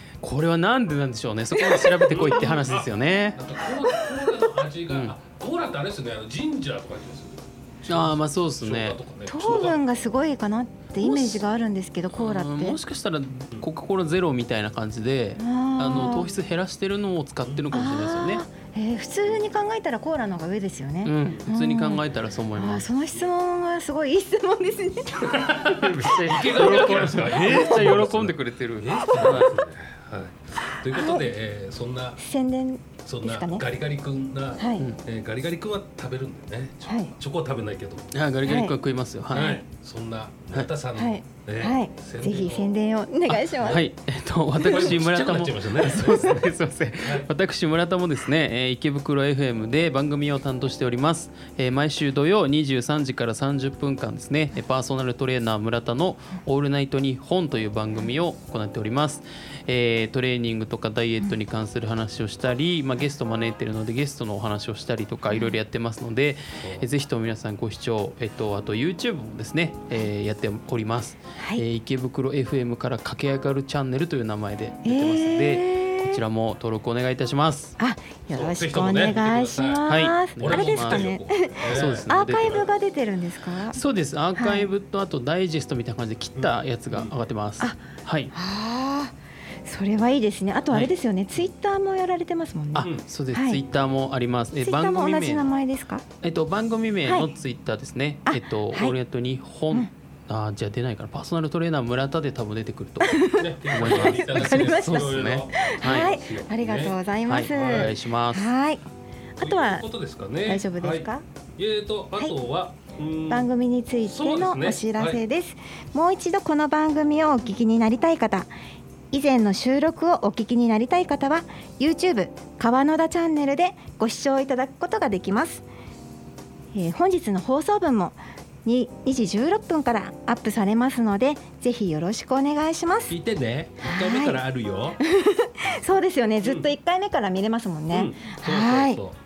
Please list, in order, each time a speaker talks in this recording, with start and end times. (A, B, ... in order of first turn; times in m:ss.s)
0:00.2-0:03.4 A
0:01.6-0:09.8 B
0:02.3-0:02.6 C
0:04.9-0:05.1 A
0:07.9-0:09.0 A
0:09.2-0:12.8 C
0:11.0-0:11.4 A
0:12.1-0:18.4 A
0:15.4-0:16.3 C
0:17.4-0:17.7 B
0:17.7-0:22.0 C
0:21.0-0:22.9 A
0:22.5-0:27.9 C
0:25.3-0:32.2 B
0:25.7-0:29.5 A
0:30.9-0:31.2 C
0:32.2-0:33.6 C
0:33.0-0:38.1 B
0:34.6-0:34.9 C
0:36.8-0:37.1 C
0:38.1-0:39.6 A
0:38.4-0:38.8 C
0:39.3-0:42.7 B
0:39.3-0:39.6 C
0:40.9-0:43.9 C
0:43.3-1:17.8 A
0:44.6-0:46.4 B
0:47.0-0:47.3 B
1:05.3-1:05.5 C
1:06.6-1:06.8 B
1:11.4-1:11.6 C
1:14.8-1:16.2 C
1:17.8-1:23.8 C
1:18.3-1:22.6 B
1:19.8-1:21.2 A
1:21.7-1:22.6 A
1:23.7-1:28.3 A
1:24.3-1:24.7 C
1:26.3-1:27.1 B
1:28.3-1:33.6 C
1:32.7-1:35.5 A
1:34.5-1:36.0 C
1:36.2-1:46.2 A
1:37.0-1:37.3 C
1:38.2-1:39.0 C
1:43.0-1:48.8 C
1:43.4-1:47.9 B
1:47.3-1:48.5 A
1:49.4-1:49.8 C
1:49.4-1:53.5 B
1:50.4-1:51.2 C
1:53.3-1:58.5 C
1:54.0-1:55.2 B
1:59.1-2:05.6 C
2:06.7-2:13.1 C
2:13.1-2:15.0 B
2:13.8-2:14.4 C
2:15.0-2:19.0 C
2:16.4-2:16.7 B
2:17.9-2:19.2 B